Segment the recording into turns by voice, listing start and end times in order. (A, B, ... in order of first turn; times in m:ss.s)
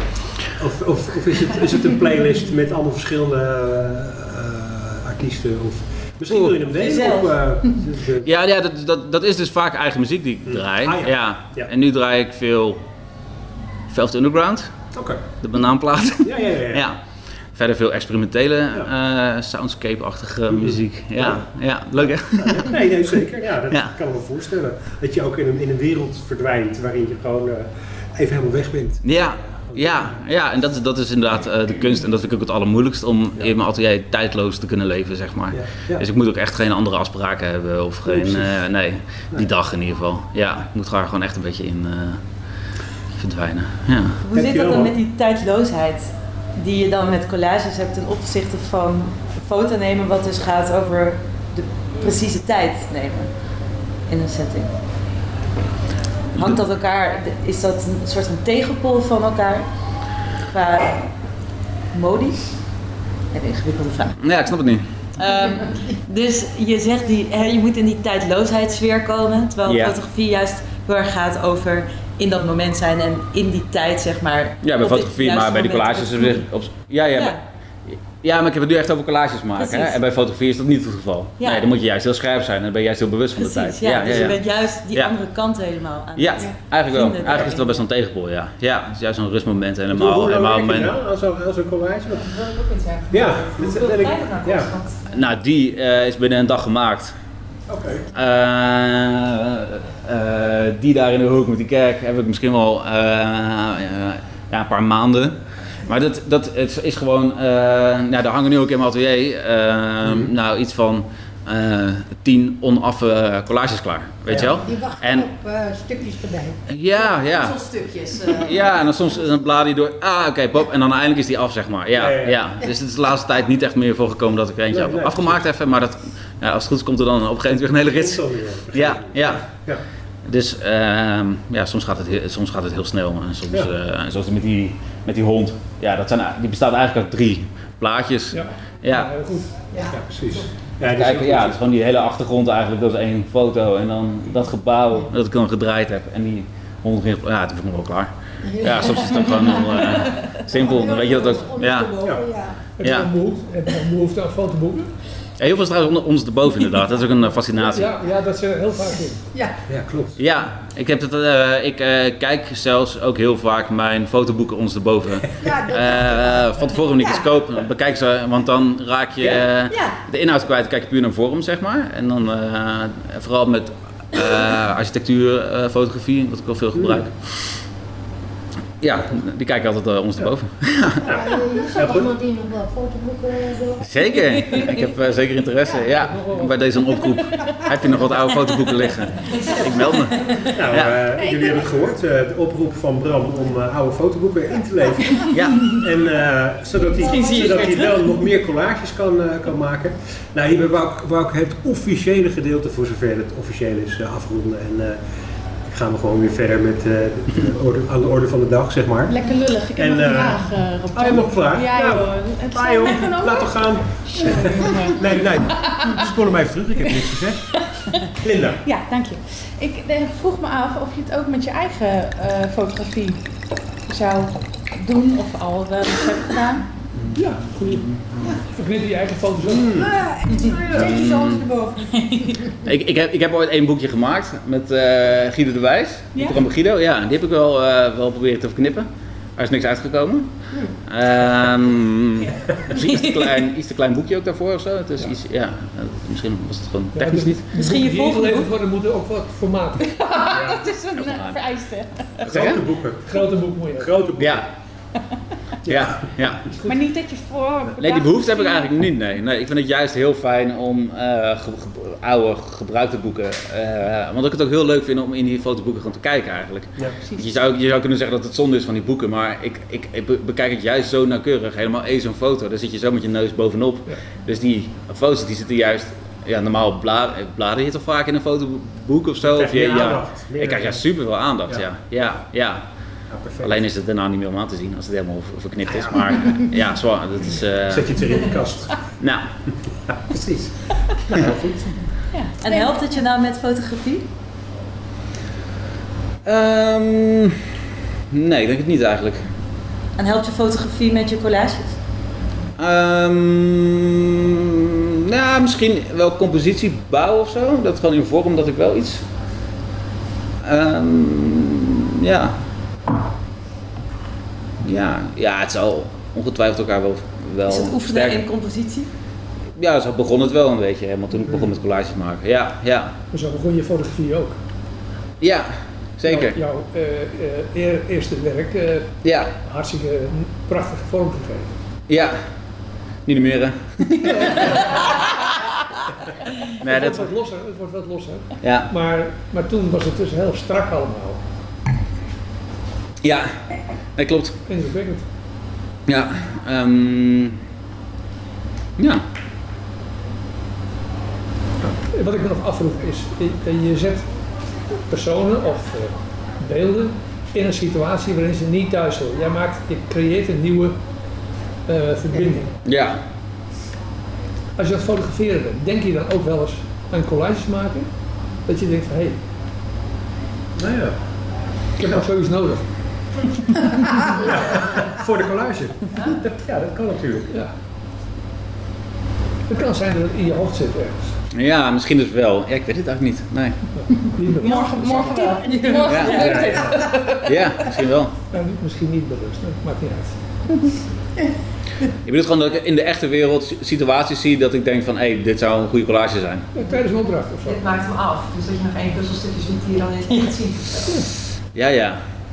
0:00.6-0:08.3 A
0:06.3-0:06.6 B
0:06.8-0:07.3 C
0:08.2-0:12.8 B
0:10.5-0:11.7 A
0:13.9-0:14.7 B
0:14.9-0:15.2 A
0:15.4-0:17.0 B
0:16.2-0:16.8 A
0:17.5-0:22.7 B
0:20.5-0:21.4 A
0:22.0-0:30.2 A
0:29.0-0:42.2 B
0:35.5-0:36.0 A
0:38.0-0:38.5 A
0:43.1-0:44.2 B
0:44.2-0:53.3 C
0:44.3-0:44.9 A
0:54.1-0:54.7 C
0:56.4-0:59.7 C
1:00.5-1:01.1 C
1:01.9-1:02.5 C
1:03.3-1:04.2 C
1:04.2-1:04.9 B
1:05.2-1:16.4 C
1:09.6-1:10.0 B
1:14.6-1:17.4 B
1:18.0-1:24.4 B
1:19.6-1:20.0 C
1:23.4-1:27.8 C
1:26.2-1:30.9 B
1:29.9-1:32.3 A
1:32.2-1:35.1 D
1:33.1-1:34.7 A
1:35.1-1:37.1 B
1:37.7-1:38.0 A
1:38.1-1:55.3 B
1:54.3-1:54.6 A
1:54.4-1:56.6 E
1:56.7-1:57.6 B
1:57.0-1:58.9 D
1:58.3-2:09.4 B
2:01.9-2:02.4 A
2:04.7-2:05.4 A
2:07.8-2:09.8 A
2:10.2-2:19.1 B
2:18.3-2:19.5 F
2:19.7-2:20.4 E
2:19.9-2:21.6 A
2:20.8-2:31.9 B
2:28.4-2:32.6 E
2:32.8-2:34.9 F
2:32.8-2:33.1 B
2:35.4-2:38.0 B
2:37.6-2:39.3 F
2:39.7-2:40.2 A
2:40.2-2:57.1 B
2:45.4-2:47.2 E
2:49.7-2:49.9 E
2:56.7-2:57.0 A
2:58.8-3:01.1 B
3:01.0-3:02.1 A
3:01.0-3:04.8 E
3:03.8-3:11.0 B
3:05.8-3:07.0 F
3:09.5-3:09.8 A
3:10.3-3:25.0 A
3:11.1-3:11.7 G
3:15.2-3:15.7 G
3:15.3-3:15.7 B
3:16.8-3:18.0 E
3:17.4-3:17.9 C
3:25.7-3:29.2 A
3:29.1-3:36.2 G
3:29.7-3:37.5 A
3:38.2-3:38.6 A
3:38.6-3:43.2 G
3:43.9-3:46.6 G
3:47.1-3:49.8 F
3:49.4-3:49.9 A
3:49.7-3:52.3 E
3:50.4-3:51.0 A
3:50.7-3:51.5 B
3:51.9-3:52.3 G
3:52.6-4:00.3 B
3:56.1-3:56.4 G
4:00.9-4:07.4 B
4:02.7-4:03.3 G
4:06.9-4:10.0 F
4:07.5-4:08.5 C
4:09.9-4:12.2 G
4:10.3-4:10.6 A
4:10.9-4:11.4 B
4:12.2-4:12.6 B
4:12.2-4:14.4 A
4:13.0-4:14.2 F
4:14.2-4:14.5 B
4:15.6-4:16.0 A
4:15.6-4:16.4 B
4:16.5-4:16.8 F
4:16.6-4:18.7 G
4:17.8-4:42.6 B
4:39.2-4:40.8 A
4:43.1-4:43.6 A
4:43.4-4:47.9 B
4:45.7-4:46.0 A
4:47.7-4:48.7 A
4:49.0-4:49.3 B
4:50.1-4:51.8 A
4:52.1-4:52.8 G
4:52.4-4:54.0 C
4:56.2-4:57.4 B
4:58.1-4:59.2 B
5:00.0-5:01.8 C
5:02.6-5:09.0 B
5:10.4-5:12.4 B
5:14.6-5:18.2 B
5:17.5-5:18.9 C
5:19.6-5:22.9 B
5:23.1-5:24.4 F
5:25.2-5:26.4 B
5:26.1-5:31.5 F
5:29.0-5:29.3 B
5:31.9-5:32.2 B
5:33.0-5:34.6 B
5:34.0-5:35.0 F
5:36.6-5:37.1 B
5:36.6-5:41.2 F
5:38.4-5:38.7 B
5:43.0-5:43.4 B
5:44.0-5:44.4 B
5:44.5-5:45.0 F
5:45.9-5:47.4 B
5:48.8-5:49.0 B
5:51.9-5:54.1 F
5:54.9-6:00.8 F
6:01.7-6:02.5 F
6:02.6-6:03.0 B
6:04.6-6:07.9 F
6:08.4-6:09.2 F
6:10.6-6:11.0 A
6:11.8-6:12.6 F
6:14.1-6:17.3 A
6:19.5-6:21.1 F
6:21.3-6:23.6 B
6:23.8-6:25.3 F
6:24.4-6:27.2 G
6:25.2-6:26.7 D
6:25.8-6:26.2 B
6:26.1-6:26.9 A
6:26.3-6:27.0 F
6:27.2-6:28.1 B
6:28.3-6:30.2 F
6:32.0-6:36.5 B
6:36.5-6:37.6 F
6:37.4-6:41.0 D
6:41.5-6:42.0 B